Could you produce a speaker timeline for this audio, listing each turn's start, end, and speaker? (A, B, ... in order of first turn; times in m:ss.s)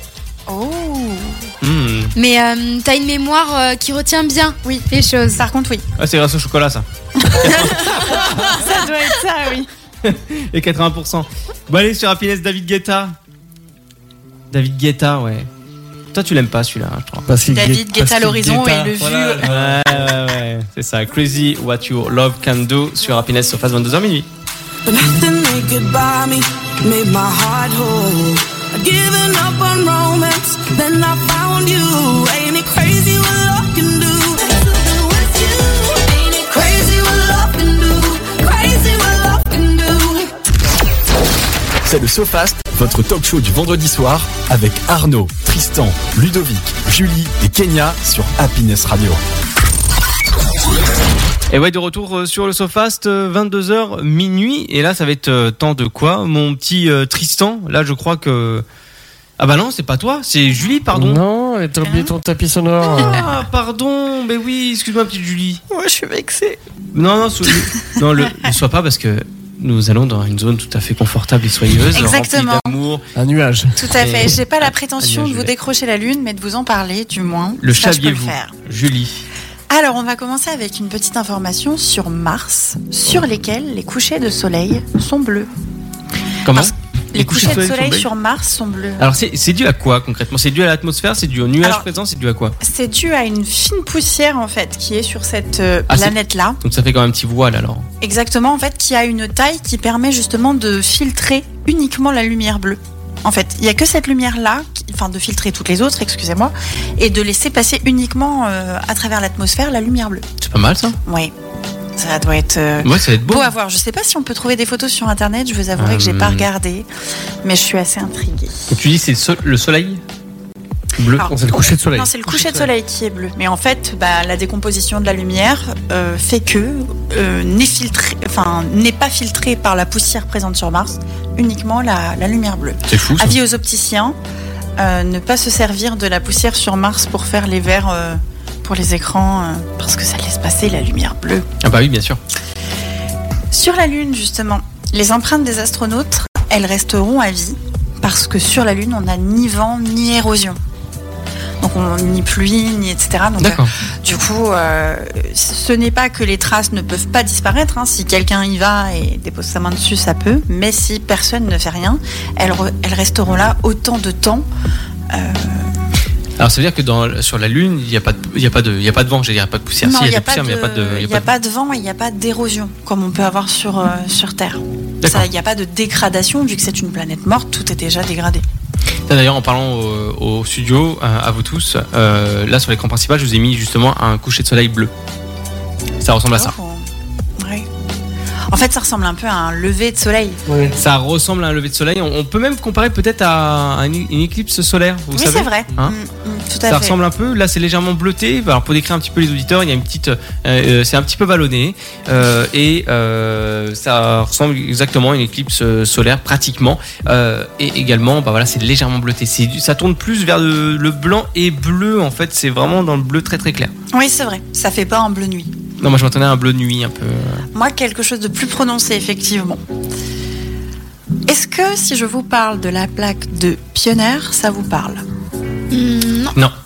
0:00.5-0:01.5 A
0:01.6-0:02.1 B
0:02.2-0:05.4 C
0:04.6-0:05.8 A
0:06.0-0:08.6 B
0:07.3-0:09.7 A
0:10.0-0:13.2 B
0:14.5-0:15.5 B
0:16.1-0:17.3 B
0:17.3-0:20.1 D
0:17.5-0:19.6 A
0:19.4-0:24.3 B
0:24.9-0:40.3 E
0:41.8-0:49.2 F
0:51.5-0:58.6 B
0:59.4-1:01.2 B
1:00.9-1:03.3 D
1:01.8-1:02.1 A
1:02.9-1:05.6 B
1:05.7-1:06.6 A
1:06.9-1:13.0 B
1:11.9-1:12.8 A
1:13.2-1:13.9 D
1:13.8-1:18.5 A
1:14.0-1:15.5 B
1:17.6-1:19.2 B
1:19.7-1:25.5 A
1:26.4-1:28.1 B
1:26.5-1:29.0 A
1:29.0-1:32.6 B
1:32.6-1:36.6 A
1:35.9-1:37.9 B
1:38.0-1:50.2 A
1:50.4-1:51.0 B
1:51.1-1:51.3 A
1:52.0-1:56.9 A
1:52.8-1:53.5 B
1:55.8-1:56.5 B
1:57.4-1:58.7 A
1:58.7-2:00.0 B
2:01.0-2:01.3 B
2:01.2-2:14.2 A
2:01.2-2:02.1 D
2:02.3-2:02.7 B
2:12.9-2:13.4 B
2:14.8-2:21.5 A
2:21.6-2:22.2 B
2:23.5-2:30.6 A
2:31.6-2:44.5 A
2:33.4-2:33.7 B
2:45.1-2:45.7 A
2:46.4-2:51.3 B
2:49.8-2:58.4 A
2:59.1-3:04.9 B
3:06.0-3:06.6 B
3:06.3-3:06.9 A
3:07.4-3:07.7 A
3:08.5-3:10.4 A
3:10.5-3:10.8 D
3:10.8-3:16.0 B
3:15.1-3:17.0 A
3:16.7-3:33.7 B
3:33.9-3:35.5 A
3:35.8-3:37.4 B
3:37.5-3:39.6 A
3:41.3-3:45.0 A
3:45.7-3:46.4 C